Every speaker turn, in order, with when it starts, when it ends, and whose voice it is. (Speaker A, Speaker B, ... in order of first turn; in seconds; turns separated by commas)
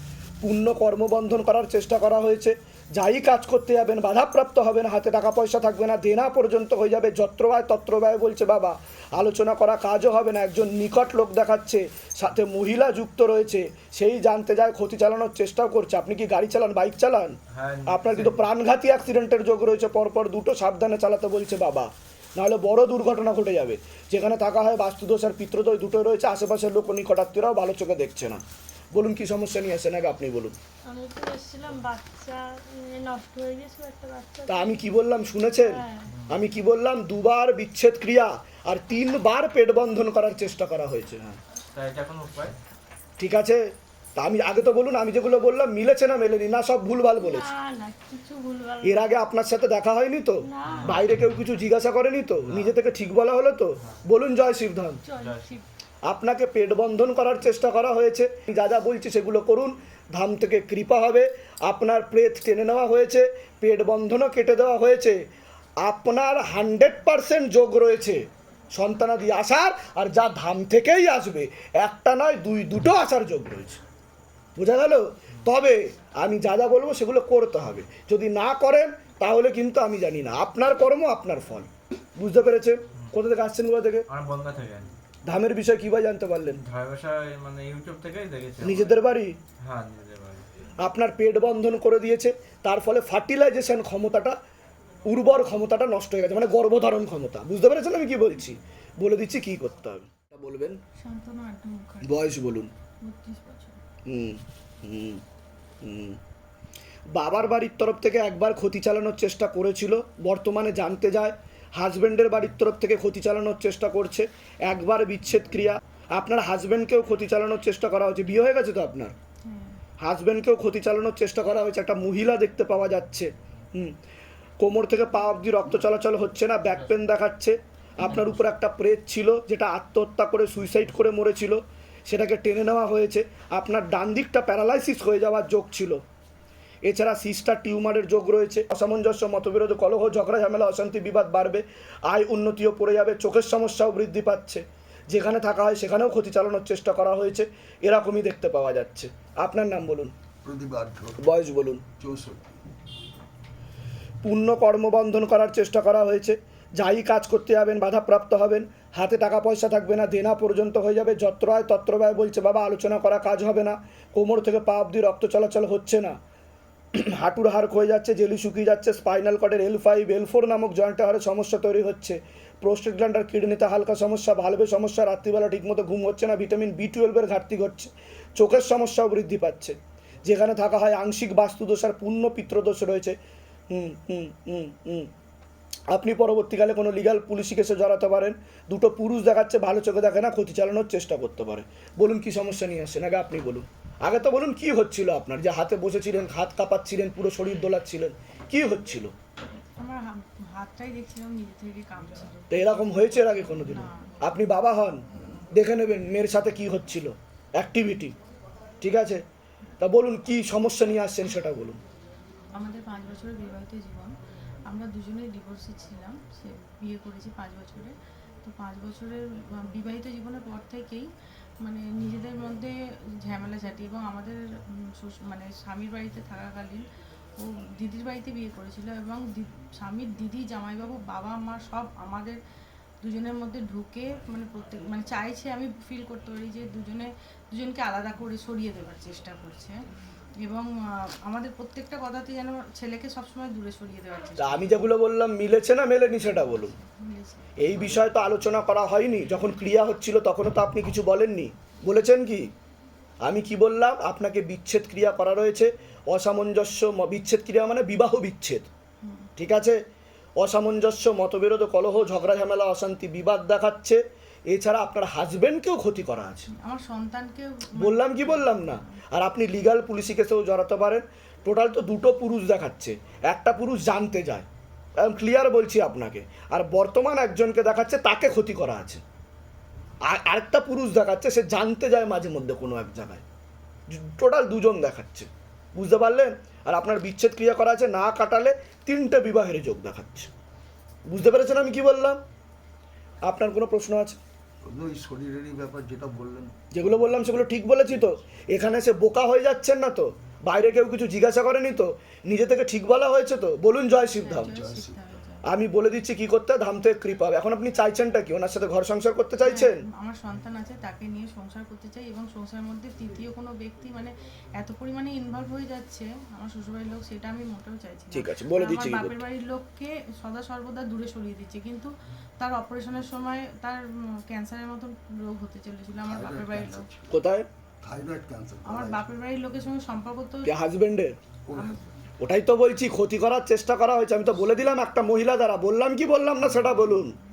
Speaker A: 0.4-28.4, Speaker B: 17.5-18.5, Speaker A: 28.9-30.6, Speaker C: 30.9-34.9, Speaker A: 34.5-41.4, Speaker C: 35.6-36.1, Speaker B: 36.1-36.4, Speaker B: 41.7-42.5, Speaker A: 43.2-47.5, Speaker C: 47.2-48.8, Speaker A: 48.8-55.0, Speaker C: 50.5-50.9, Speaker B: 50.7-51.0, Speaker B: 52.5-52.8, Speaker C: 55.1-55.5, Speaker B: 55.2-55.5, Speaker A: 56.1-65.2, Speaker A: 65.8-73.8, Speaker A: 74.6-84.1, Speaker B: 84.1-84.9, Speaker A: 85.3-86.6, Speaker B: 86.5-89.0, Speaker A: 88.6-89.4, Speaker B: 89.6-90.5, Speaker A: 90.8-94.4, Speaker A: 95.1-100.8, Speaker D: 101.0-102.4, Speaker A: 102.0-102.7, Speaker D: 103.0-103.8, Speaker A: 104.1-105.2, Speaker A: 105.8-106.2, Speaker A: 107.2-119.1, Speaker D: 119.4-119.8, Speaker A: 120.0-124.0, Speaker A: 124.6-136.0, Speaker A: 136.8-150.1, Speaker E: 150.4-151.2, Speaker A: 151.2-151.8, Speaker E: 151.9-152.5, Speaker A: 154.2-166.2, Speaker A: 166.9-183.2, Speaker A: 183.7-185.1, Speaker A: 185.9-199.1, Speaker D: 199.8-204.1, Speaker A: 202.5-205.0, Speaker A: 205.6-208.1, Speaker A: 208.8-209.2, Speaker A: 209.8-211.8, Speaker D: 212.5-214.2, Speaker D: 214.7-221.1, Speaker D: 221.6-226.9, Speaker D: 227.4-232.4, Speaker D: 233.0-239.8, Speaker D: 240.4-244.8, Speaker A: 244.4-246.7, Speaker D: 246.2-247.6, Speaker A: 247.6-252.5, Speaker A: 253.2-258.7, Speaker D: 259.0-259.3, Speaker A: 259.4-259.8, Speaker A: 260.4-266.5, Speaker D: 266.5-269.0, Speaker A: 267.8-274.5, Speaker A: 275.0-279.0, Speaker A: 280.1-283.2, Speaker A: 283.9-290.3, Speaker A: 291.1-292.2, Speaker A: 293.3-294.2, Speaker E: 294.6-296.5, Speaker A: 296.7-304.5, Speaker D: 304.0-305.4, Speaker E: 304.5-305.0, Speaker A: 305.5-309.8, Speaker D: 309.4-326.9, Speaker A: 318.1-319.2, Speaker E: 326.1-327.2, Speaker A: 327.1-327.4, Speaker E: 327.8-329.1, Speaker D: 328.7-330.5, Speaker A: 330.5-331.2, Speaker E: 331.5-331.9, Speaker D: 331.5-331.8, Speaker A: 332.2-337.1